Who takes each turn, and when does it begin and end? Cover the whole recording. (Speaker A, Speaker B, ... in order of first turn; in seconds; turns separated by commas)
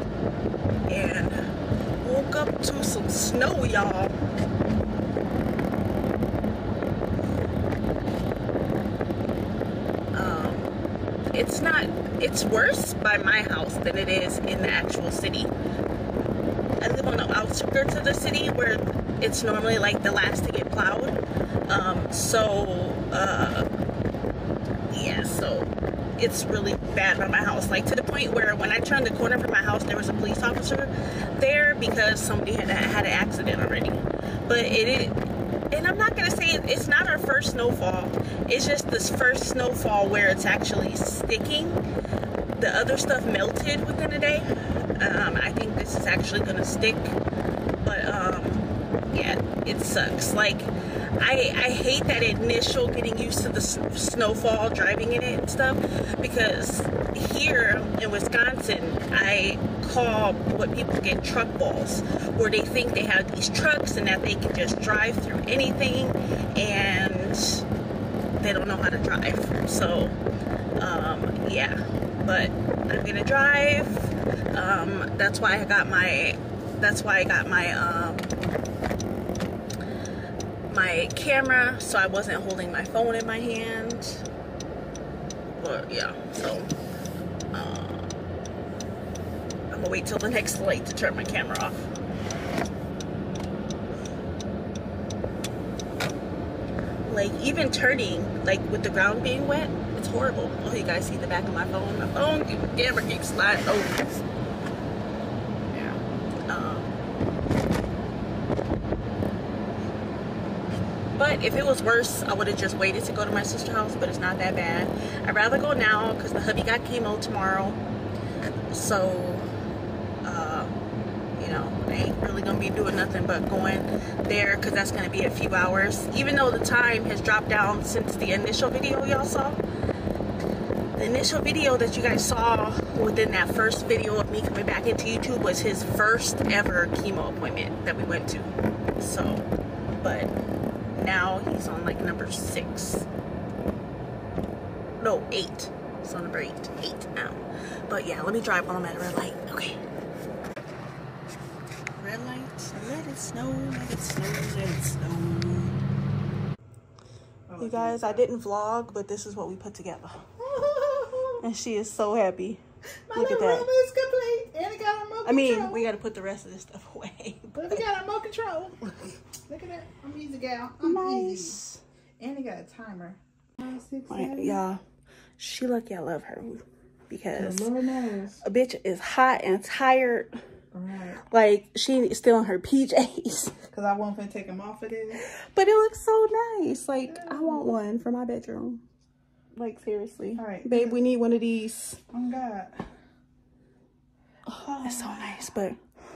Speaker A: 0.9-1.5, Speaker A: 2.0-4.1, Speaker A: 10.1-10.8, Speaker A: 11.3-15.5, Speaker A: 16.8-23.6, Speaker A: 24.9-41.8, Speaker A: 42.5-44.5, Speaker A: 45.0-47.2, Speaker A: 47.8-67.6, Speaker A: 68.4-70.2, Speaker A: 70.8-78.4, Speaker A: 80.7-84.2, Speaker A: 85.5-86.7, Speaker A: 87.5-88.1, Speaker A: 89.7-91.9, Speaker A: 97.1-104.0, Speaker A: 106.5-107.0, Speaker A: 111.2-117.8, Speaker A: 118.7-119.5, Speaker A: 120.2-120.8, Speaker A: 121.4-129.6, Speaker A: 130.9-139.5, Speaker A: 140.0-140.3, Speaker A: 140.9-143.1, Speaker A: 145.0-149.8, Speaker A: 152.0-155.8, Speaker B: 157.5-158.2, Speaker A: 157.6-160.3, Speaker B: 160.4-161.4, Speaker A: 161.4-162.6, Speaker B: 163.1-165.8, Speaker A: 163.1-163.7, Speaker A: 165.2-167.8, Speaker B: 167.6-171.6, Speaker A: 170.8-171.8, Speaker B: 172.2-174.6, Speaker A: 174.1-174.8, Speaker A: 175.4-177.7, Speaker B: 177.3-178.4, Speaker A: 178.4-180.3, Speaker B: 180.7-181.2, Speaker A: 181.2-183.7, Speaker B: 183.7-185.2, Speaker A: 185.2-188.8, Speaker B: 187.1-187.7, Speaker A: 189.5-192.0, Speaker B: 190.3-191.0, Speaker B: 192.1-192.9, Speaker A: 194.5-195.8, Speaker B: 194.5-195.5